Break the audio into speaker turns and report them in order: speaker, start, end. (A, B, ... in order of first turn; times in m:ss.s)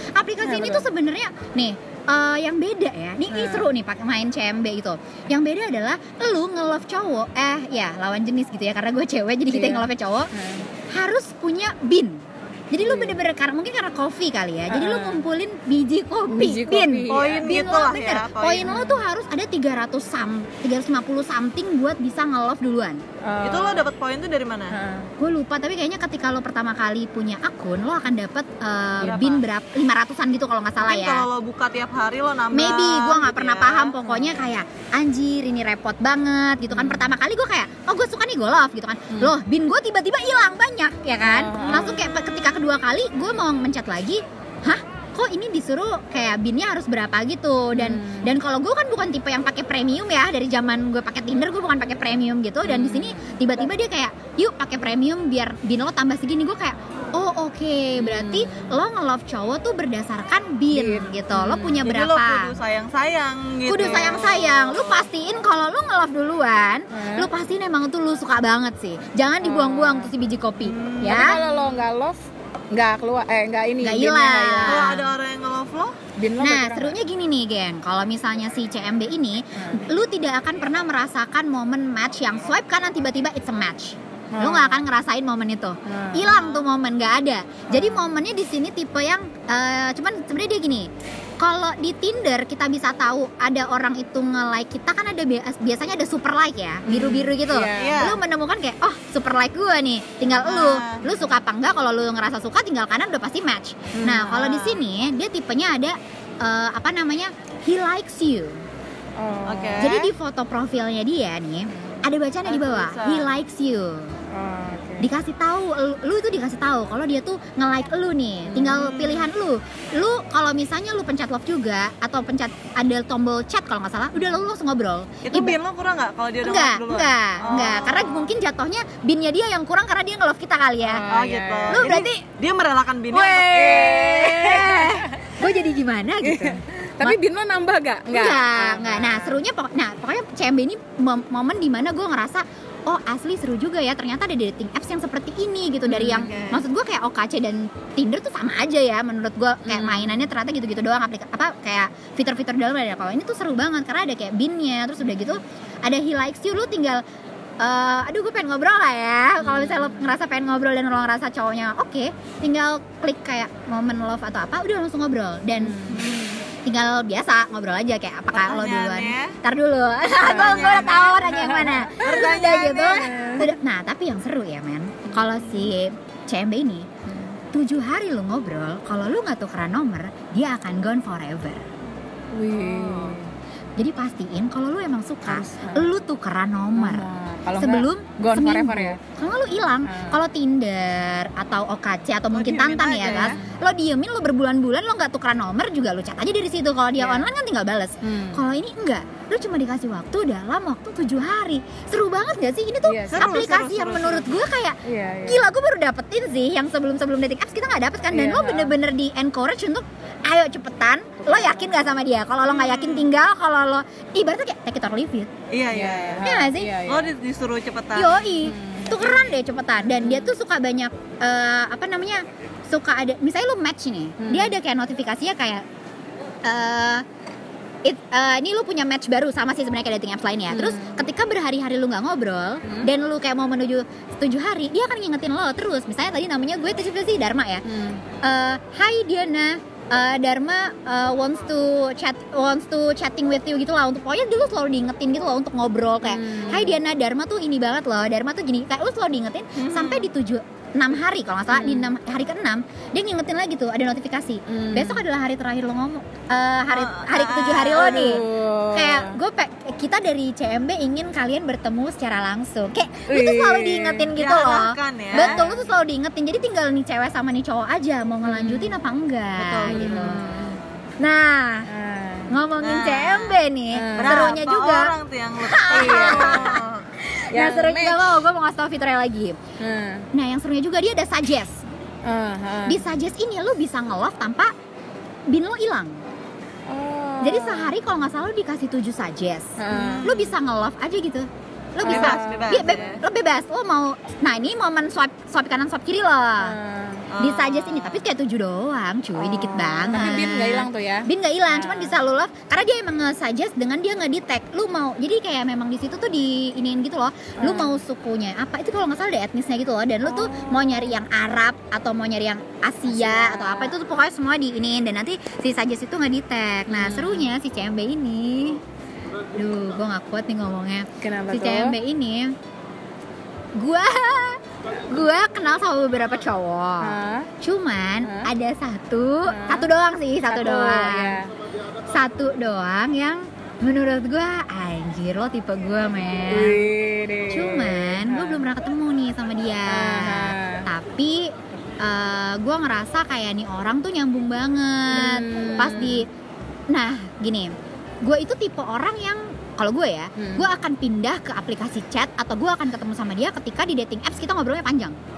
0:00.2-0:10.3 A
0:00.4-0:00.9 B
0:03.3-0:03.7 B
0:09.5-0:10.7 B
0:10.9-0:23.0 A
0:12.8-0:13.2 B
0:14.7-0:15.2 B
0:16.3-0:17.5 B
0:17.1-0:18.8 C
0:18.6-0:19.0 B
0:23.2-0:23.9 B
0:23.4-0:24.8 C
0:24.7-0:25.1 B
0:25.2-0:31.2 A
0:29.0-0:29.4 C
0:30.8-0:34.0 C
0:32.5-1:02.5 A
0:34.1-0:34.4 B
0:36.7-0:37.1 B
0:41.2-0:42.2 B
0:47.7-0:48.4 B
0:52.6-0:53.6 B
0:58.0-0:58.7 B
1:00.7-1:01.9 B
1:01.8-1:05.1 C
1:03.7-1:11.4 A
1:03.8-1:04.2 B
1:06.9-1:07.3 B
1:09.4-1:10.1 B
1:10.6-1:11.7 C
1:11.0-1:12.2 B
1:12.7-1:15.1 B
1:13.8-1:15.0 A
1:14.6-1:16.0 C
1:16.2-1:17.0 B
1:16.4-1:48.6 A
1:19.6-1:19.9 B
1:24.3-1:24.9 B
1:25.8-1:26.6 B
1:27.7-1:28.2 B
1:36.8-1:38.1 B
1:37.7-1:38.2 C
1:40.4-1:41.0 C
1:43.9-1:44.5 B
1:44.3-1:44.8 C
1:49.2-1:49.9 B
1:49.4-1:50.1 C
1:49.8-1:54.2 A
1:51.7-1:52.0 B
1:52.4-1:53.3 C
1:54.3-1:55.1 B
1:55.0-2:05.6 A
1:58.4-1:58.9 B
1:58.7-1:59.3 C
2:05.2-2:08.2 C
2:06.4-2:11.0 A
2:10.8-2:12.1 B
2:11.1-2:14.0 C
2:11.7-2:12.2 A
2:13.1-2:17.2 A
2:13.3-2:15.3 B
2:16.2-2:19.4 B
2:18.1-2:37.0 A
2:25.9-2:26.4 B
2:26.2-2:26.6 C
2:29.6-2:30.3 B
2:35.0-2:35.4 B
2:37.6-2:45.9 A
2:39.4-2:40.1 B
2:45.6-2:46.1 B
2:45.9-2:46.4 C
2:46.6-2:56.9 A
2:48.3-2:49.3 C
2:50.2-2:51.4 C
2:50.2-2:52.2 B
2:51.9-2:53.2 C
2:52.9-2:53.5 B
2:55.1-2:55.5 B
2:57.1-2:57.3 B
2:57.5-3:01.6 A
3:02.3-3:03.3 B
3:02.7-3:03.1 C
3:03.8-3:07.1 A
3:05.3-3:05.9 B
3:06.7-3:09.0 B
3:07.6-3:35.3 A
3:09.8-3:10.2 B
3:12.3-3:13.4 C
3:13.1-3:13.5 B
3:17.0-3:17.3 B
3:18.0-3:18.4 B
3:22.8-3:23.3 B
3:23.1-3:24.3 C
3:24.8-3:25.4 B
3:28.1-3:28.7 B
3:31.2-3:31.9 B
3:32.5-3:33.0 C
3:35.5-3:36.2 C
3:35.7-3:37.1 B
3:36.2-3:36.8 A
3:36.8-3:38.2 C
3:38.0-3:45.6 A
3:38.4-3:40.3 B
3:44.2-3:44.6 B
3:46.4-3:47.0 A
3:47.8-3:57.6 A
3:50.5-3:51.0 B
3:52.6-3:52.9 B
3:57.6-3:58.0 B
3:58.2-4:30.2 A
4:06.0-4:06.8 B
4:09.6-4:10.1 C
4:11.5-4:11.9 B
4:14.5-4:15.0 B
4:16.7-4:18.2 C
4:17.7-4:19.2 B
4:23.1-4:24.1 B
4:24.2-4:25.4 C
4:25.1-4:25.7 B
4:28.2-4:28.8 B
4:29.4-4:30.1 C
4:29.7-4:30.6 B
4:31.0-4:31.7 A
4:31.7-4:32.3 B
4:32.3-4:39.4 A
4:32.6-4:33.4 C
4:33.7-4:34.3 B
4:33.9-4:36.8 C
4:35.7-4:36.6 B
4:37.3-4:38.0 B
4:39.6-4:40.1 B
4:40.1-4:41.6 A
4:42.0-4:42.8 B
4:42.6-4:44.5 A
4:45.3-4:46.0 A
4:46.7-4:47.7 B
4:47.2-4:56.6 A
4:49.6-4:50.2 B
4:49.7-4:50.3 C
4:51.8-4:52.9 B
4:51.8-4:53.0 C
4:56.4-4:57.1 B
4:57.1-4:58.0 C
4:57.2-5:18.6 A
4:59.2-5:02.0 B
5:07.4-5:07.8 B
5:10.0-5:11.0 B
5:12.8-5:13.8 B
5:16.7-5:17.3 B
5:19.3-5:22.3 A
5:21.0-5:21.8 B
5:23.6-5:31.2 A
5:26.8-5:27.3 B
5:28.0-5:28.3 B
5:29.2-5:29.7 B
5:30.3-5:31.3 B
5:31.9-5:36.7 A
5:36.3-5:38.4 B
5:37.3-5:46.1 A
5:39.7-5:40.7 B
5:44.9-5:46.0 B
5:46.7-5:47.5 A
5:48.0-5:55.0 A
5:50.2-5:50.4 B